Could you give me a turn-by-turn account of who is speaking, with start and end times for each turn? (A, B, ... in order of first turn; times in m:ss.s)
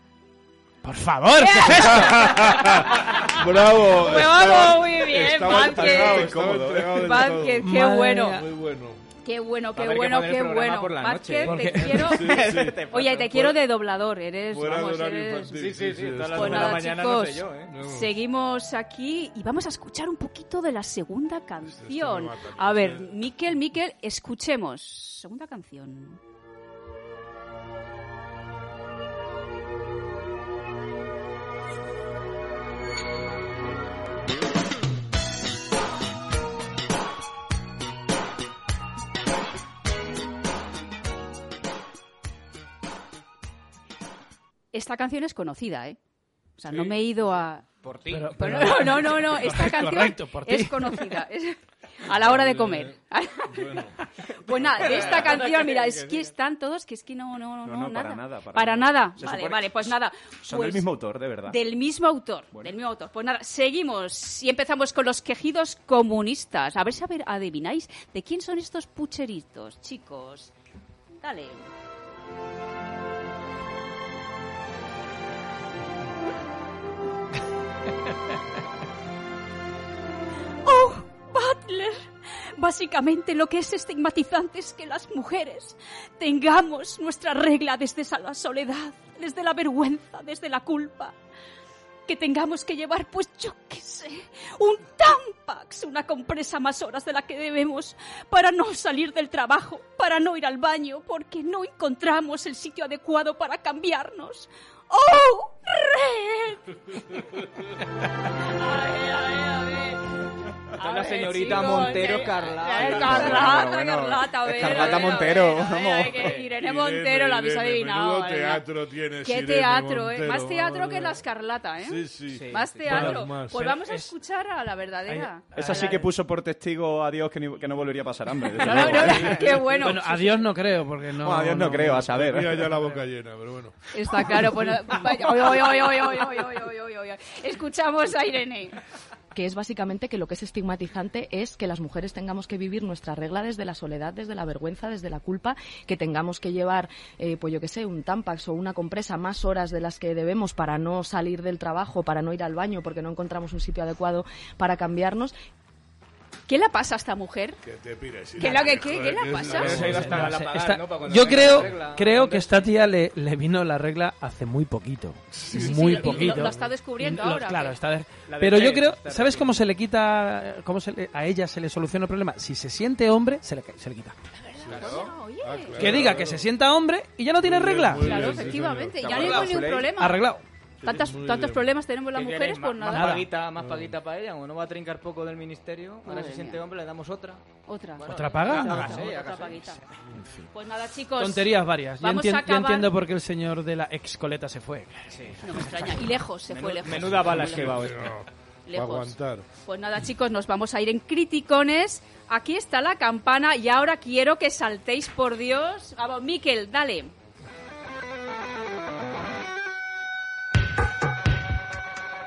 0:00.8-0:02.2 A
0:01.4-0:06.3 B
0:01.7-0:07.7 C
0:05.5-0:07.1 D
0:06.9-0:08.4 B
0:07.6-0:08.5 A
0:08.4-0:09.0 C
0:09.2-0:15.6 B
0:09.8-0:13.6 E
0:11.4-0:12.1 A
0:12.0-0:12.8 C
0:14.5-0:16.9 C
0:15.5-0:17.7 E
0:16.3-0:26.2 B
0:17.7-0:18.1 C
0:21.6-0:23.2 C
0:44.7-0:46.0 B
0:46.6-0:47.6 B
0:46.7-0:46.9 E
0:47.8-0:48.8 E
0:48.1-0:51.2 A
0:48.4-1:00.9 B
0:52.2-0:53.0 C
0:53.5-0:54.0 C
0:54.6-0:56.2 E
0:57.6-1:01.6 D
1:01.4-1:10.5 B
1:11.2-1:11.7 B
1:20.6-1:31.1 B
1:32.0-1:47.4 B
1:48.3-1:50.2 B
1:50.7-1:58.6 B
1:50.8-1:56.5 E
1:52.7-1:53.7 C
1:53.1-1:54.0 D
1:54.5-1:56.2 D
1:56.1-2:01.2 C
1:59.2-2:06.1 B
2:01.8-2:03.8 C
2:02.3-2:03.3 E
2:03.8-2:04.1 A
2:05.1-2:05.9 A
2:05.5-2:09.5 D
2:08.6-2:10.5 B
2:08.6-2:09.9 C
2:09.2-2:09.7 E
2:09.8-2:12.1 A
2:11.2-2:12.8 D
2:11.9-2:13.8 C
2:13.9-2:18.8 B
2:19.3-2:35.3 F
2:36.5-2:37.6 B
2:37.6-2:40.4 C
2:38.4-2:39.8 B
2:39.4-2:42.7 E
2:39.7-2:54.2 A
2:41.4-2:41.8 C
2:45.3-2:46.7 C
2:45.5-2:47.8 B
2:48.3-2:49.5 E
2:54.4-2:56.0 B
2:54.6-2:56.5 C
2:54.7-2:55.0 E
2:54.8-2:55.1 D
2:55.8-2:58.2 A
2:57.4-2:59.5 C
2:58.0-3:00.2 B
2:59.0-2:59.9 D
2:59.1-2:59.5 E
3:00.0-3:00.4 A
3:00.8-3:01.7 C
3:00.8-3:03.3 B
3:02.1-3:07.4 E
3:02.8-3:03.3 A
3:03.6-3:04.0 C
3:06.0-3:06.6 B
3:07.6-3:09.8 B
3:08.0-3:09.6 E
3:08.0-3:09.1 A
3:09.6-3:10.5 A
3:10.5-3:12.9 B
3:11.2-3:16.1 A
3:15.1-3:15.4 E
3:15.4-3:17.9 B
3:16.5-3:18.2 E
3:17.0-3:19.4 C
3:18.6-3:27.1 B